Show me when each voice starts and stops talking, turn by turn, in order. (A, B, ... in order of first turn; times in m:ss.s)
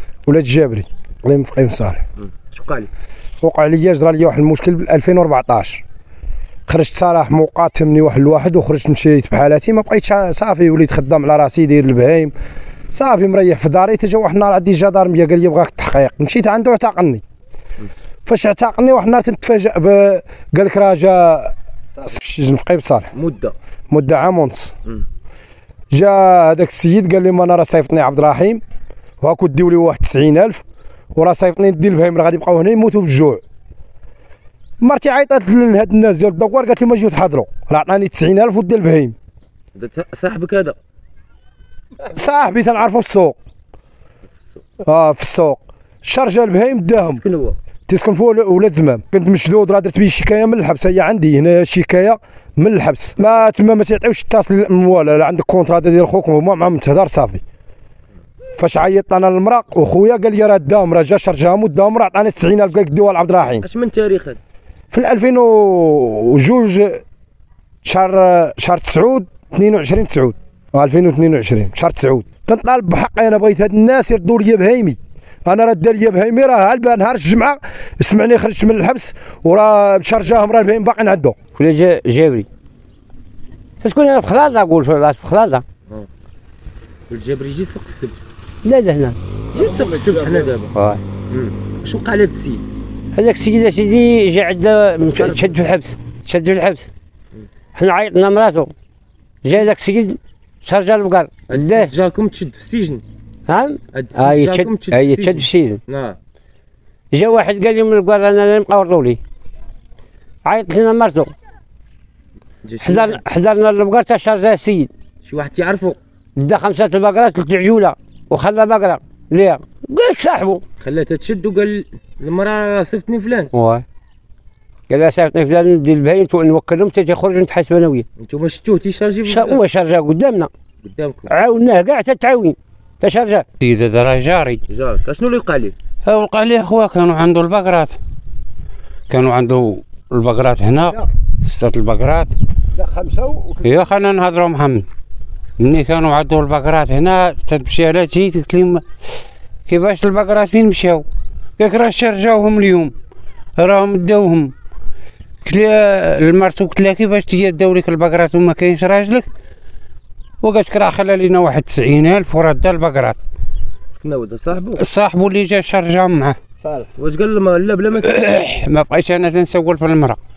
0:00.3-0:02.0 A
0:02.2-0:02.9 B
0:03.4-0:05.8 A
0:06.7-0:12.3 A
0:12.9-0:17.2 A
0:18.3-0:23.1 A
0:23.1-0:23.5 B
0:23.9-0:24.7 A
0:25.9-0:28.6 A
0:29.2-0:30.6 A
0:31.2-0:33.4 A
0:34.8-0:39.2 A
0:39.7-0:40.8 B
0:42.1-0:43.4 A
0:44.8-0:47.2 A
0:47.0-0:47.6 B
0:47.9-0:57.4 A
0:58.6-1:03.7 A
1:03.6-1:04.4 B
1:04.9-1:07.0 A
1:07.8-1:21.4 A
1:21.6-1:22.5 C
1:23.8-1:25.6 C
1:27.1-1:28.2 B
1:28.6-1:31.0 C
1:29.5-1:30.7 B
1:31.3-1:32.6 B
1:33.1-1:36.8 C
1:35.2-1:35.5 B
1:37.8-1:38.7 C
1:39.4-1:41.9 C
1:41.5-1:43.0 B
1:43.5-1:45.8 C
1:43.9-1:46.2 B
1:47.1-1:49.2 C
1:50.4-1:51.3 C
1:52.6-1:53.2 B
1:52.8-1:54.9 C
1:55.2-1:56.0 B
1:56.4-2:00.6 C
2:00.8-2:03.5 B
2:03.5-2:03.8 C
2:04.9-2:08.0 C
2:08.2-2:09.6 B
2:09.2-2:10.5 C
2:10.8-2:11.3 B
2:11.3-2:13.4 C
2:13.6-2:14.6 D
2:14.7-2:15.8 B
2:16.0-2:17.9 D
2:19.1-2:22.3 D
2:22.8-2:23.8 C
2:23.6-2:24.8 D
2:25.6-2:28.8 D
2:29.7-2:31.1 D
2:31.6-2:32.9 D
2:33.6-2:34.5 D
2:35.4-2:39.2 D
2:40.4-2:43.2 D
2:44.0-2:44.8 B
2:44.8-2:46.4 D
2:46.9-2:48.2 B
2:48.0-2:50.2 D